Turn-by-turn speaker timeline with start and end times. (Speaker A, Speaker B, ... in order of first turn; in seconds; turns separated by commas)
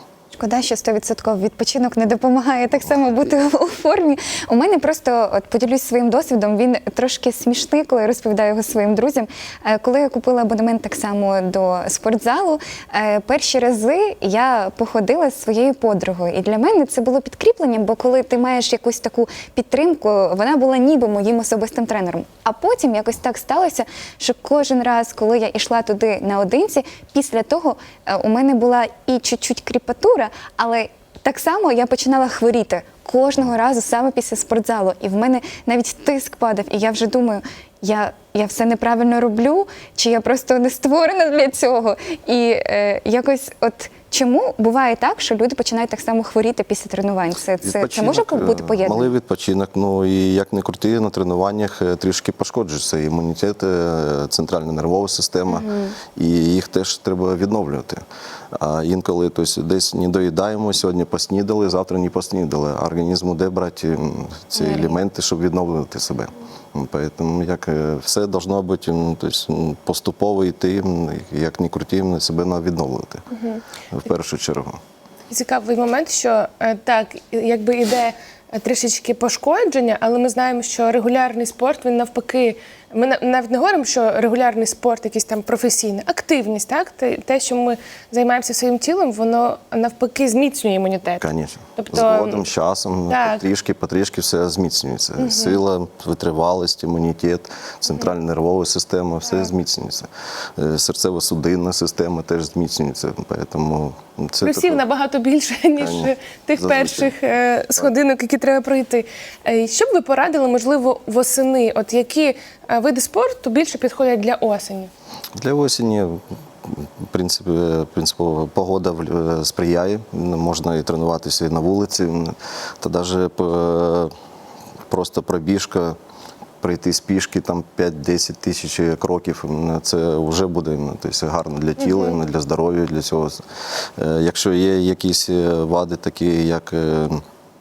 Speaker A: 0.3-49.1, Speaker B: 47.6-58.0, Speaker A: 55.5-56.0, Speaker B: 58.5-73.2, Speaker A: 64.6-65.0, Speaker C: 73.3-73.6, Speaker B: 73.9-74.8, Speaker C: 75.3-92.5, Speaker B: 91.2-104.8, Speaker C: 93.1-93.4, Speaker C: 95.2-95.6, Speaker C: 104.4-114.9, Speaker B: 105.8-107.1, Speaker B: 115.4-124.1, Speaker B: 124.9-126.0, Speaker B: 126.6-133.4, Speaker C: 131.8-132.2, Speaker B: 134.0-137.2